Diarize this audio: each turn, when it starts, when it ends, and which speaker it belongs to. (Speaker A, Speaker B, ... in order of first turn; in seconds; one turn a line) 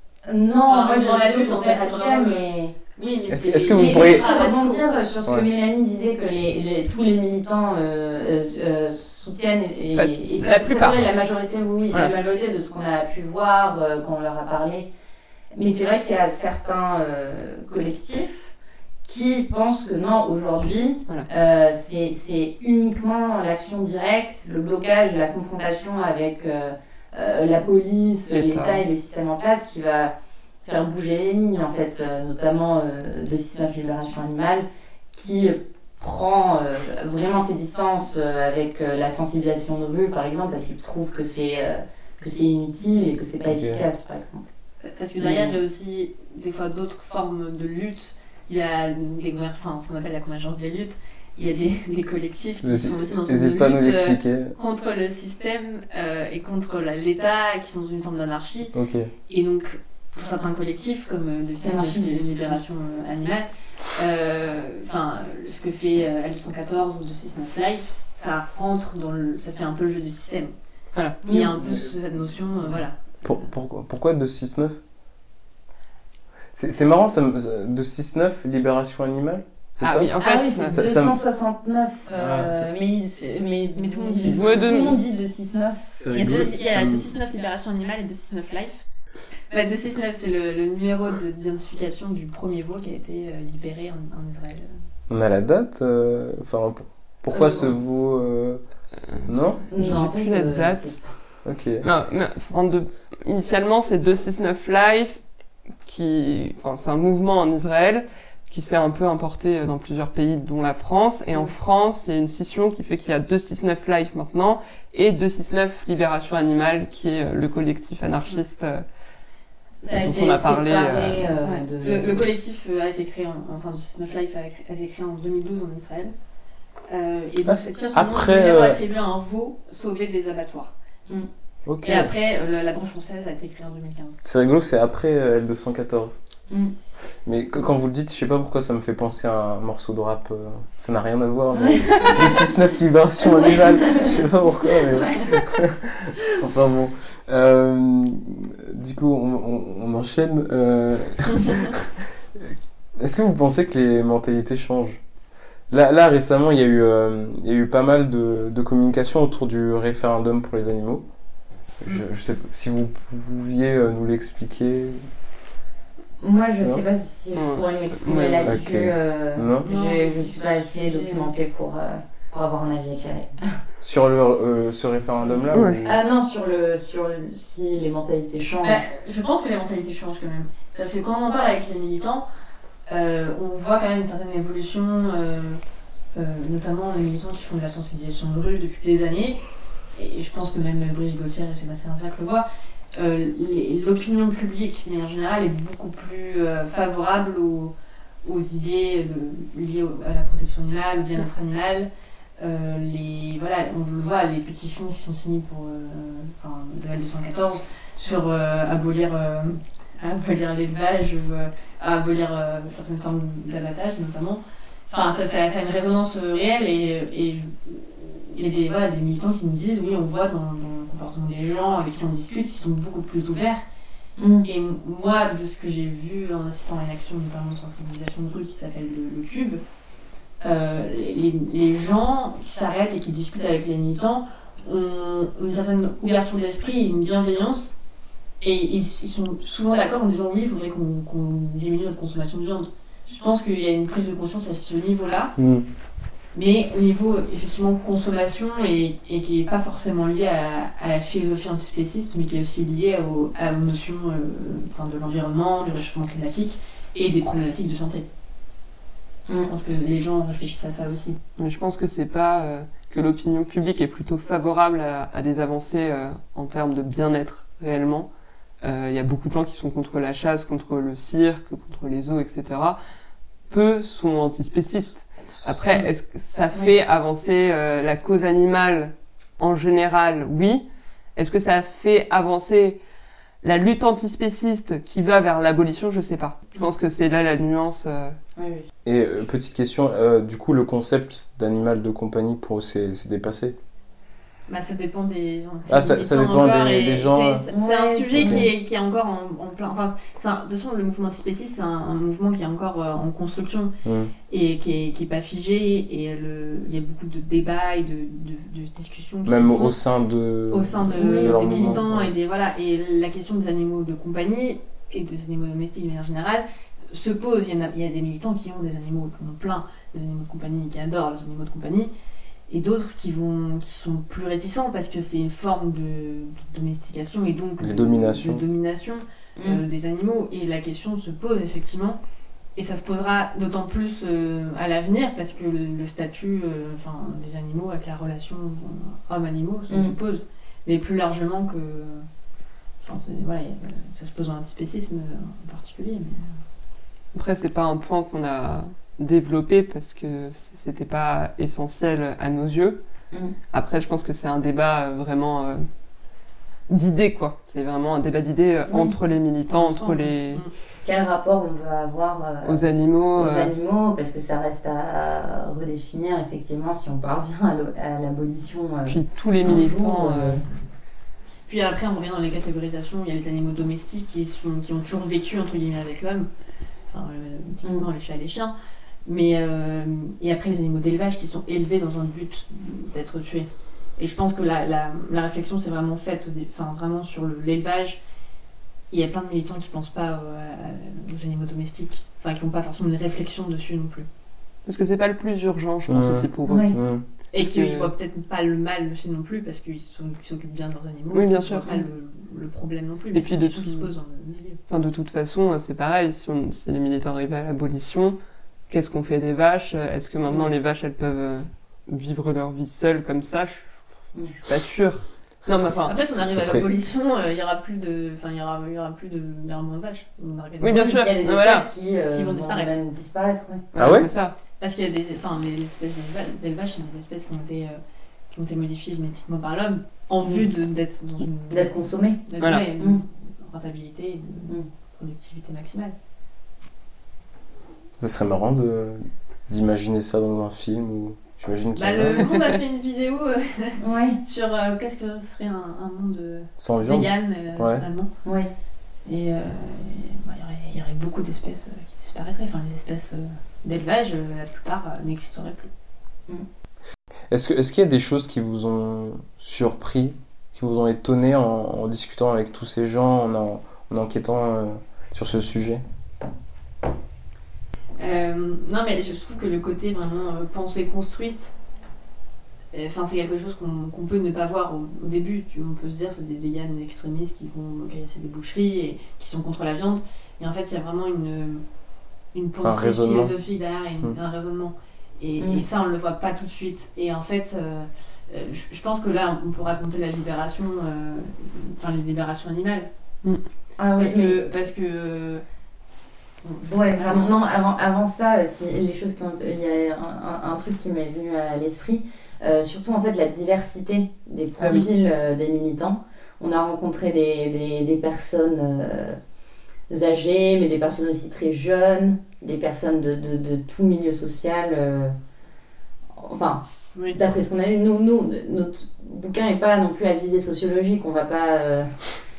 Speaker A: 0.3-2.8
Speaker B: 0.7-2.4
Speaker B: 3.0-5.0
Speaker C: 3.3-4.3
Speaker A: 3.8-14.9
Speaker D: 9.9-11.0
Speaker A: 15.5-44.5
Speaker D: 28.3-28.8
Speaker C: 43.5-43.8
Speaker B: 44.8-58.7
Speaker A: 45.2-45.6
Speaker C: 52.6-54.6
Speaker C: 58.7-59.1
Speaker B: 59.3-70.5
Speaker A: 61.6-62.5
Speaker A: 71.2-71.8
Speaker B: 71.2-73.4
Speaker C: 73.2-74.8
Speaker C: 76.5-80.1
Speaker D: 79.8-80.8
Speaker A: 80.1-87.1
Speaker C: 80.7-81.2
Speaker C: 82.1-82.7
Speaker B: 83.8-85.0
Speaker D: 84.2-85.0
Speaker C: 85.9-87.1
Speaker B: 86.1-88.8
Speaker B: 89.5-94.8
Speaker C: 95.1-98.6
Speaker A: 97.3-97.8
Speaker D: 99.2-101.0
Speaker C: 99.3-99.6
Speaker A: 99.7-101.2
Speaker C: 101.4-101.8
Speaker D: 101.8-105.2
Speaker D: 105.8-118.8
Speaker B: 119.8-120.2
Speaker A: 119.8-122.3
Speaker D: 119.9-121.3
Speaker B: 121.4-126.1
Speaker B: 126.9-130.7
Speaker C: 127.5-128.8
Speaker C: 131.7-132.1
Speaker B: 131.8-134.2
Speaker C: 134.2-136.2
Speaker C: 137.3-155.0
Speaker A: 141.5-142.5
Speaker B: 141.9-142.2
Speaker B: 143.6-144.1
Speaker B: 144.9-145.4
Speaker C: 155.7-161.1
Speaker C: 161.8-165.0
Speaker A: 166.2-173.5
Speaker D: 167.3-168.6
Speaker C: 168.4-169.7
Speaker B: 169.6-171.3
Speaker C: 173.8-176.0
Speaker D: 175.5-175.8
Speaker A: 175.8-178.8
Speaker B: 178.6-182.3
Speaker B: 182.9-185.6
Speaker B: 186.1-189.4
Speaker B: 189.9-223.6
Speaker A: 224.2-224.5
Speaker B: 224.4-229.6
Speaker B: 230.4-237.8
Speaker B: 238.4-245.3
Speaker C: 245.4-245.7
Speaker B: 246.3-258.1
Speaker B: 259.5-261.2
Speaker D: 261.4-268.1
Speaker D: 268.6-272.8
Speaker D: 273.5-282.8
Speaker D: 283.4-288.2
Speaker A: 288.4-288.7
Speaker C: 288.8-293.6
Speaker B: 294.5-303.7
Speaker C: 295.7-297.4
Speaker A: 297.5-298.4
Speaker C: 298.2-298.5
Speaker C: 303.8-304.1
Speaker B: 304.3-309.8
Speaker C: 309.3-312.1
Speaker B: 310.5-321.9
Speaker A: 311.0-311.8
Speaker B: 322.5-332.0
Speaker C: 327.6-328.4
Speaker B: 332.6-342.1
Speaker B: 342.8-346.4
Speaker D: 347.1-352.8
Speaker D: 353.5-355.7
Speaker D: 356.7-360.4
Speaker A: 358.7-358.9
Speaker B: 359.5-360.5
Speaker A: 360.8-370.5
Speaker D: 362.4-363.5
Speaker D: 368.9-370.4
Speaker B: 371.5-376.3
Speaker B: 376.9-378.5
Speaker B: 379.1-388.0
Speaker B: 388.9-394.1
Speaker D: 394.7-396.7
Speaker C: 395.9-397.1
Speaker A: 396.5-396.8
Speaker B: 397.3-404.6
Speaker D: 397.4-397.9
Speaker D: 401.1-401.7
Speaker D: 403.1-403.9
Speaker D: 404.7-408.2
Speaker D: 408.7-413.7
Speaker D: 414.4-416.0
Speaker B: 415.9-420.9
Speaker C: 416.3-416.7
Speaker D: 420.6-421.7
Speaker A: 420.7-423.7
Speaker B: 422.1-422.8
Speaker D: 423.7-424.4
Speaker C: 423.8-424.1
Speaker B: 424.6-427.8
Speaker B: 428.3-431.7
Speaker A: 431.5-432.2
Speaker B: 432.2-435.9
Speaker C: 438.0-442.2
Speaker B: 441.8-448.1
Speaker A: 443.8-444.2
Speaker C: 446.6-447.8
Speaker A: 448.2-448.5
Speaker B: 449.1-455.7
Speaker C: 457.3-465.8
Speaker B: 468.0-471.5
Speaker B: 472.7-481.6
Speaker B: 482.3-492.9
Speaker C: 482.6-483.3
Speaker A: 493.8-494.4
Speaker B: 494.0-495.4
Speaker B: 496.4-497.3
Speaker A: 496.7-509.2
Speaker D: 504.6-504.9
Speaker A: 509.9-515.1
Speaker A: 516.2-522.2